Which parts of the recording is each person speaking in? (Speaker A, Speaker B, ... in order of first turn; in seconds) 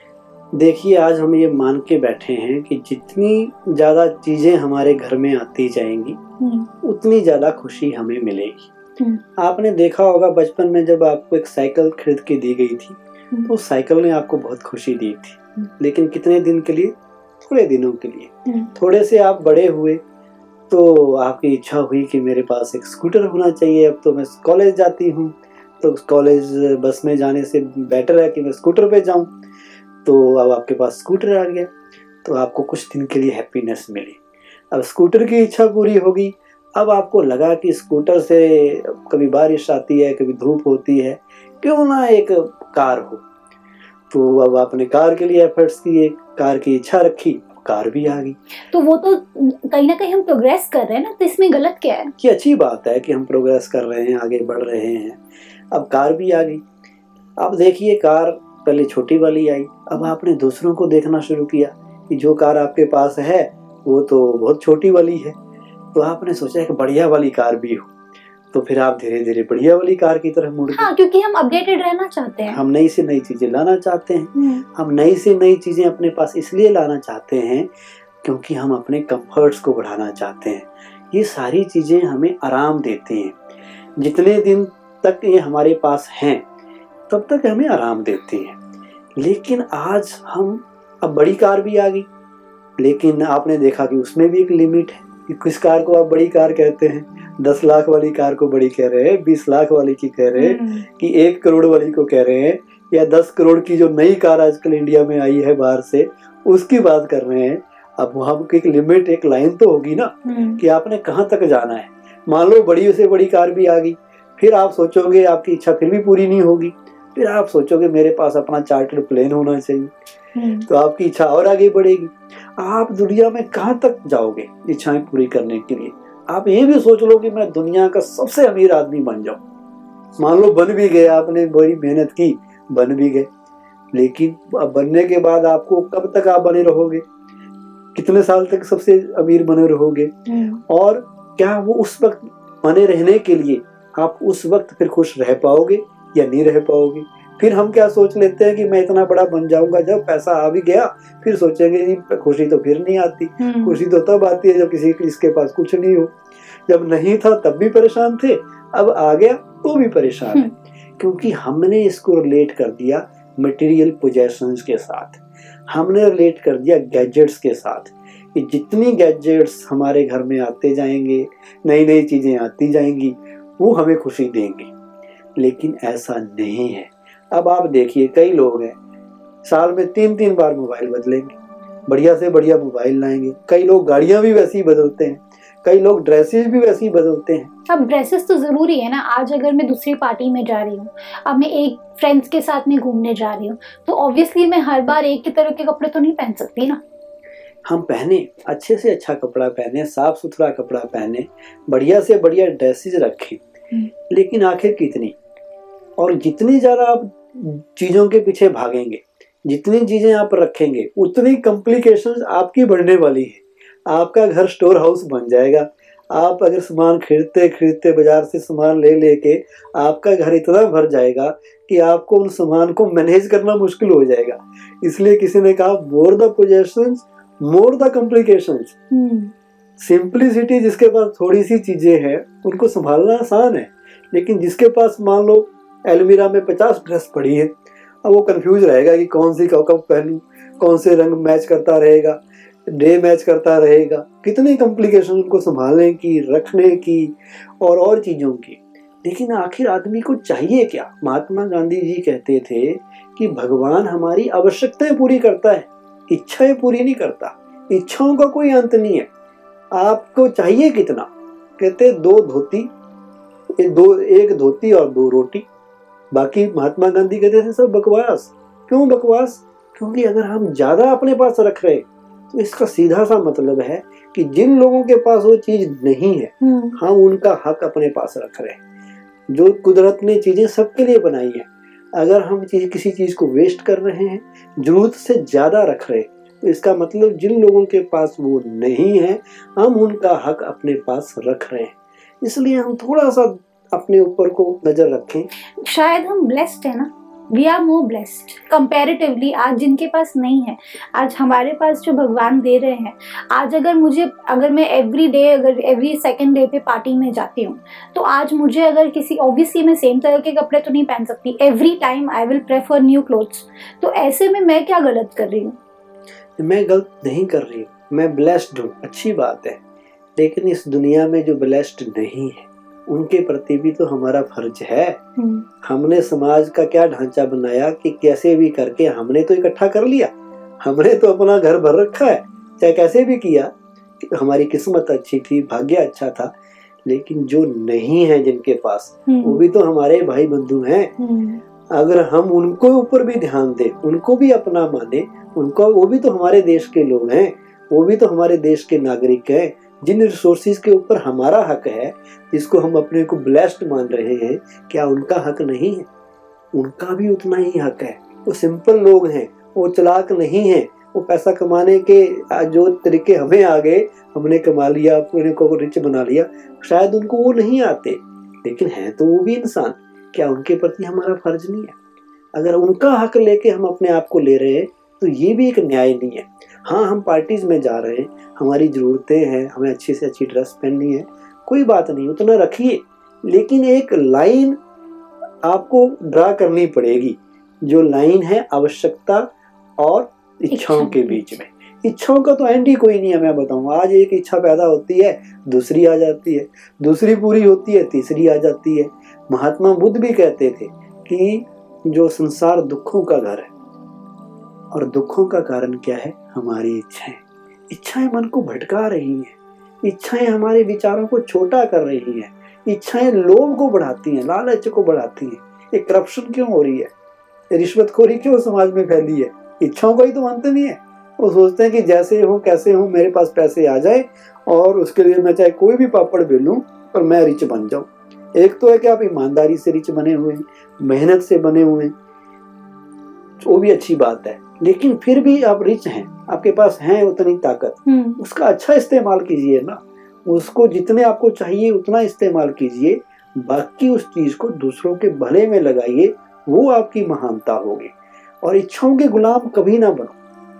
Speaker A: 0.5-6.2, 6.8-8.7, 9.4-20.0, 20.7-29.3, 30.0-31.7, 32.2-34.2, 34.7-43.2, 44.1-48.4, 52.2-55.2, 55.7-56.6, 57.4-65.4, 65.9-67.9, 68.5-70.9, 72.5-77.7, 78.2-83.4, 84.0-86.5, 87.1-88.6, 89.2-92.1, 92.8-119.9, 120.7-129.4, 130.2-133.3, 133.9-137.1, 137.9-140.1, 140.7-156.2, 156.7-174.7, 175.4-178.8, 179.4-181.4, 181.9-187.5, 197.7-203.4, 204.1-205.2, 206.0-228.8, 229.8-259.1, 259.7-262.7, 263.6-265.5, 266.1-278.6, 279.3-295.3, 316.4-319.6, 320.2-325.0, 325.6-336.3, 336.9-340.9, 341.7-355.9, 356.5-371.8, 372.4-384.6, 385.4-403.5, 404.7-416.9, 417.5-431.9, 433.4-450.2
Speaker B: 6.4-6.7, 48.7-52.1, 70.7-72.6, 74.4-74.6, 100.3-100.9, 110.3-110.6, 120.4-120.7, 140.3-140.6, 153.4-153.8, 187.7-196.8, 228.9-229.3, 276.4-276.8, 295.6-315.6, 325.2-325.4, 339.1-339.4, 341.0-341.4, 390.5-391.4, 437.9-438.2